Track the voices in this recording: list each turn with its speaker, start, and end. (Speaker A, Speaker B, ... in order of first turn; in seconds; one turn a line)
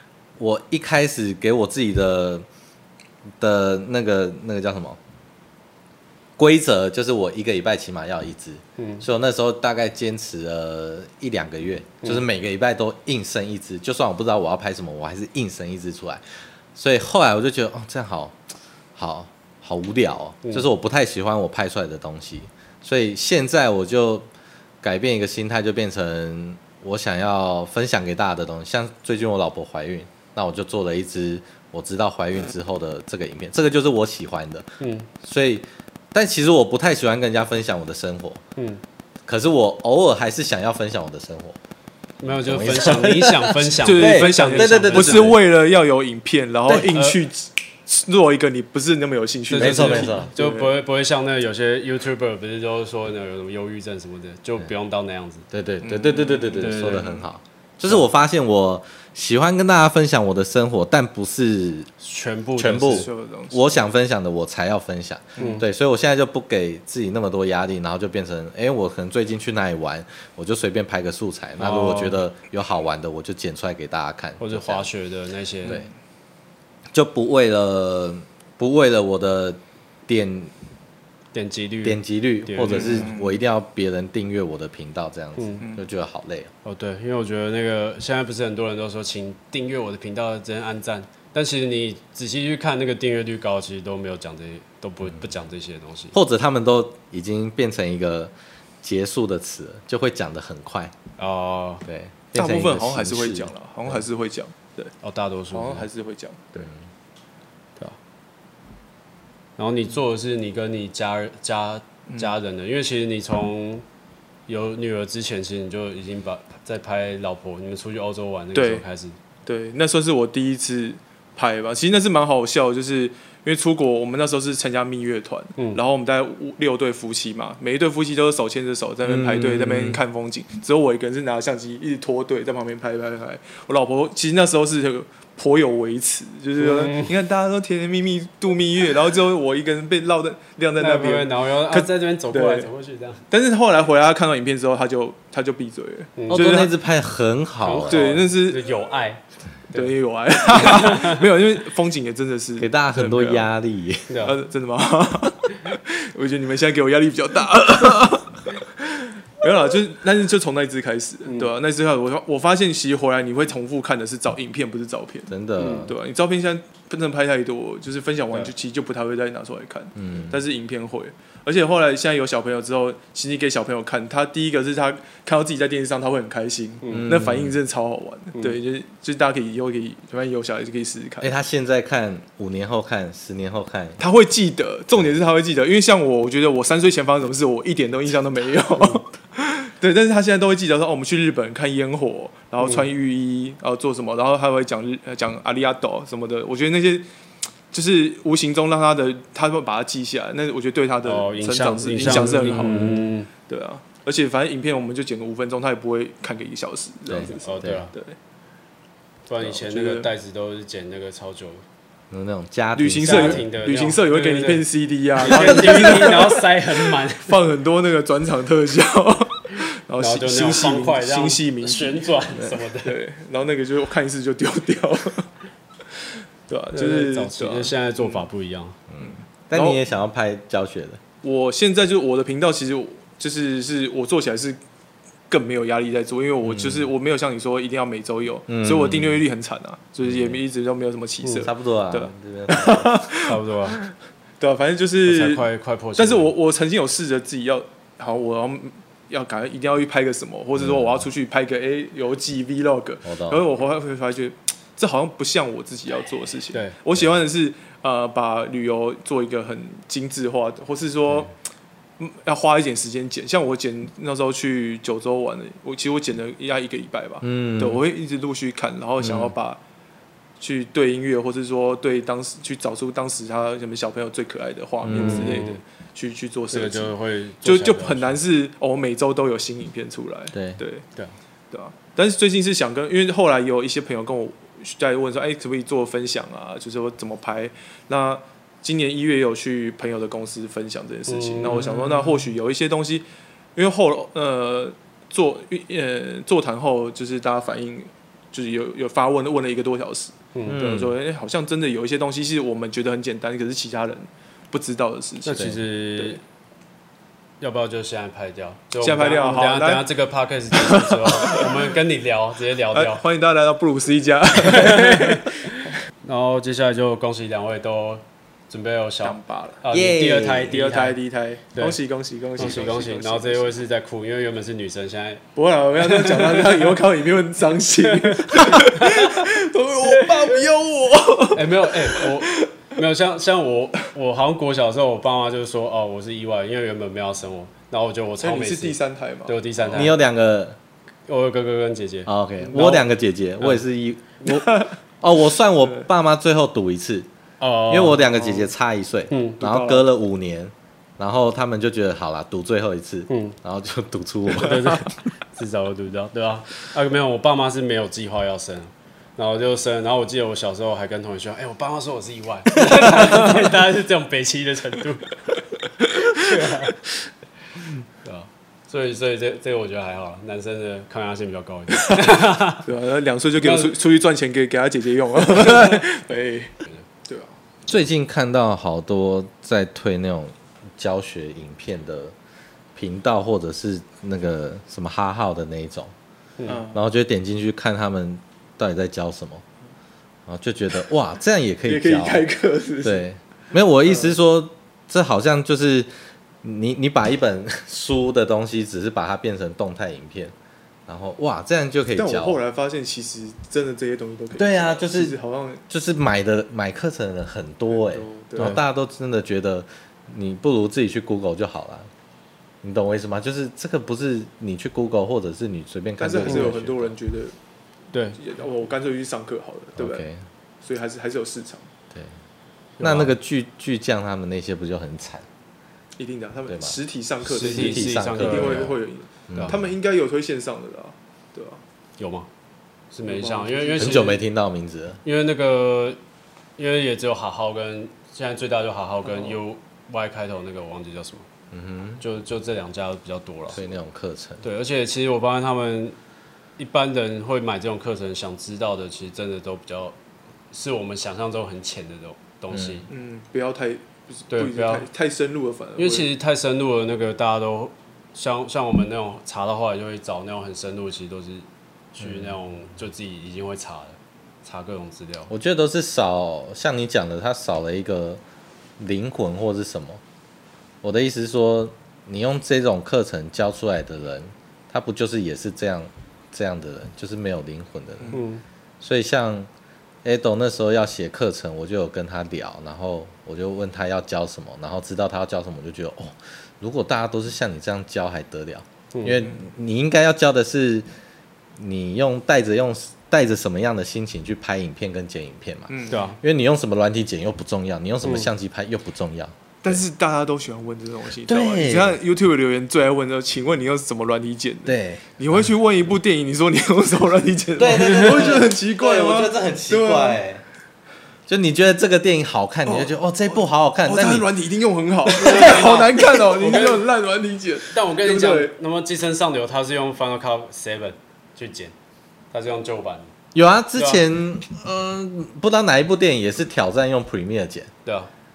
Speaker A: 0.4-2.5
Speaker A: 3.4-5.0
Speaker A: 6.4-16.2
Speaker B: 8.8-9.0
Speaker A: 16.8-18.4
Speaker A: 19.0-24.3
Speaker A: 24.8-34.7
Speaker B: 34.8-35.1
Speaker A: 35.2-38.4
Speaker B: 38.6-38.8
Speaker A: 39.3-41.6
Speaker B: 42.2-45.4
Speaker A: 42.2-45.4
Speaker C: 43.8-50.8
Speaker A: 46.7-46.9
Speaker B: 46.9-47.2
Speaker B: 49.5-55.5
Speaker A: 49.6-50.3
Speaker A: 55.5-61.9
Speaker C: 55.8-57.2
Speaker B: 56.6-57.1
Speaker B: 62.0-63.1
Speaker A: 62.6-74.9
Speaker C: 62.9-63.8
Speaker B: 65.4-65.6
Speaker C: 65.4-65.6
Speaker B: 71.6-72.2
Speaker B: 74.4-75.8
Speaker A: 76.9-80.5
Speaker B: 81.3-83.1
Speaker A: 81.8-86.5
Speaker C: 82.6-83.4
Speaker B: 85.4-85.6
Speaker C: 85.6-85.9
Speaker B: 86.7-96.2
Speaker A: 96.1-101.0
Speaker B: 101.2-101.8
Speaker A: 101.8-104.0
Speaker C: 102.3-104.9
Speaker B: 105.0-105.9
Speaker C: 105.5-106.7
Speaker B: 109.6-113.8
Speaker B: 114.5-119.2
Speaker C: 118.5-118.8
Speaker C: 119.5-142.7
Speaker A: 129.1-129.9
Speaker B: 136.6-137.1
Speaker B: 140.8-143.2
Speaker C: 143.3-146.7
Speaker B: 146.2-146.5
Speaker A: 146.3-148.1
Speaker B: 147.6-149.9
Speaker C: 147.9-148.7
Speaker C: 149.7-153.5
Speaker B: 150.5-151.2
Speaker A: 152.6-154.2
Speaker B: 154.1-154.4
Speaker C: 154.2-181.3
Speaker A: 165.3-165.9
Speaker B: 165.6-165.9
Speaker A: 170.0-170.4
Speaker B: 176.8-177.1
Speaker A: 176.9-177.6
Speaker A: 181.2-184.0
Speaker C: 184.0-197.1
Speaker C: 197.7-208.2
Speaker B: 201.1-203.3
Speaker A: 202.5-202.9
Speaker A: 207.1-207.8
Speaker B: 207.2-207.9
Speaker B: 209.3-211.6
Speaker C: 209.4-210.1
Speaker A: 212.1-213.5
Speaker C: 212.8-222.2
Speaker B: 213.0-214.7
Speaker B: 215.2-217.4
Speaker A: 215.2-216.2
Speaker B: 220.0-223.0
Speaker C: 222.8-225.3
Speaker C: 226.5-228.3
Speaker B: 226.7-228.8
Speaker A: 228.9-231.0
Speaker C: 229.0-229.8
Speaker C: 231.2-234.6
Speaker C: 235.3-261.3
Speaker A: 236.4-236.9
Speaker A: 238.5-239.2
Speaker A: 240.0-240.4
Speaker A: 241.4-243.0
Speaker B: 243.2-243.8
Speaker B: 245.1-246.3
Speaker A: 250.6-251.1
Speaker A: 253.1-253.5
Speaker C: 262.0-269.6
Speaker A: 267.2-267.8
Speaker A: 269.0-269.3
Speaker C: 270.4-280.9
Speaker A: 274.8-275.4
Speaker B: 274.9-275.6
Speaker B: 276.5-278.2
Speaker A: 280.3-280.6
Speaker C: 281.5-293.1
Speaker B: 291.1-292.0
Speaker A: 291.5-291.8
Speaker C: 293.6-306.2
Speaker A: 300.5-301.0
Speaker B: 305.2-306.2
Speaker B: 307.4-313.0
Speaker C: 308.8-309.9
Speaker C: 310.6-311.5
Speaker C: 312.7-315.7
Speaker B: 314.4-321.0
Speaker C: 319.0-319.6
Speaker A: 319.7-320.6
Speaker C: 320.5-323.5
Speaker B: 322.4-325.2
Speaker C: 325.4-332.5
Speaker B: 325.8-326.6
Speaker B: 328.0-329.3
Speaker B: 329.9-330.2
Speaker B: 331.3-340.0
Speaker C: 338.2-339.8
Speaker A: 339.7-340.6
Speaker B: 341.1-342.9
Speaker A: 342.1-347.1
Speaker B: 347.4-348.5
Speaker A: 347.7-354.7
Speaker B: 349.1-349.7
Speaker C: 349.4-349.9
Speaker B: 353.1-353.4
Speaker B: 354.3-365.4
Speaker B: 366.1-366.8
Speaker B: 368.0-372.7
Speaker C: 372.6-376.5
Speaker B: 373.4-373.7
Speaker C: 377.1-377.4
Speaker A: 377.7-382.1
Speaker A: 382.8-385.9
Speaker C: 386.4-386.8
Speaker A: 386.7-389.4
Speaker A: 390.3-392.3
Speaker C: 391.7-393.1
Speaker A: 392.8-395.9
Speaker C: 393.8-394.1
Speaker A: 396.4-400.3
Speaker A: 400.9-402.4
Speaker C: 401.9-405.6
Speaker A: 404.4-405.2
Speaker A: 405.7-411.9
Speaker C: 407.7-408.6
Speaker A: 412.6-416.9
Speaker C: 416.0-417.4
Speaker B: 417.9-418.2
Speaker C: 418.2-420.1
Speaker A: 419.8-420.2
Speaker C: 420.6-421.7
Speaker B: 422.8-423.1
Speaker A: 422.8-425.3
Speaker C: 426.0-431.6
Speaker A: 426.5-426.8
Speaker B: 427.3-428.7
Speaker A: 427.4-428.8
Speaker A: 429.3-429.6
Speaker B: 432.0-432.3
Speaker B: 432.9-434.2
Speaker C: 433.1-434.1
Speaker A: 433.8-435.0
Speaker B: 435.0-436.0
Speaker B: 436.6-441.3
Speaker C: 439.1-439.4
Speaker A: 441.5-442.0
Speaker B: 442.0-443.6
Speaker A: 443.5-444.4
Speaker B: 444.4-446.0
Speaker B: 446.6-449.9
Speaker B: 450.5-452.9
Speaker A: 452.5-452.9
Speaker C: 452.9-456.1
Speaker B: 454.3-454.9
Speaker B: 455.8-465.3
Speaker A: 462.0-462.3
Speaker A: 465.3-468.2
Speaker A: 468.8-470.0
Speaker A: 470.8-478.2
Speaker B: 478.1-478.4
Speaker A: 478.8-479.5
Speaker A: 480.0-490.9
Speaker B: 488.9-489.3
Speaker A: 491.6-499.8
Speaker C: 495.7-496.1
Speaker B: 495.9-496.2
Speaker B: 498.0-498.3
Speaker C: 499.6-510.2
Speaker A: 501.3-502.0
Speaker A: 504.7-505.1
Speaker A: 507.6-510.4
Speaker A: 511.3-514.3
Speaker C: 512.7-518.6
Speaker A: 515.1-516.2
Speaker B: 515.2-516.8
Speaker B: 517.7-521.7
Speaker B: 522.3-523.1
Speaker A: 523.3-527.7
Speaker B: 523.8-524.0
Speaker B: 527.9-528.1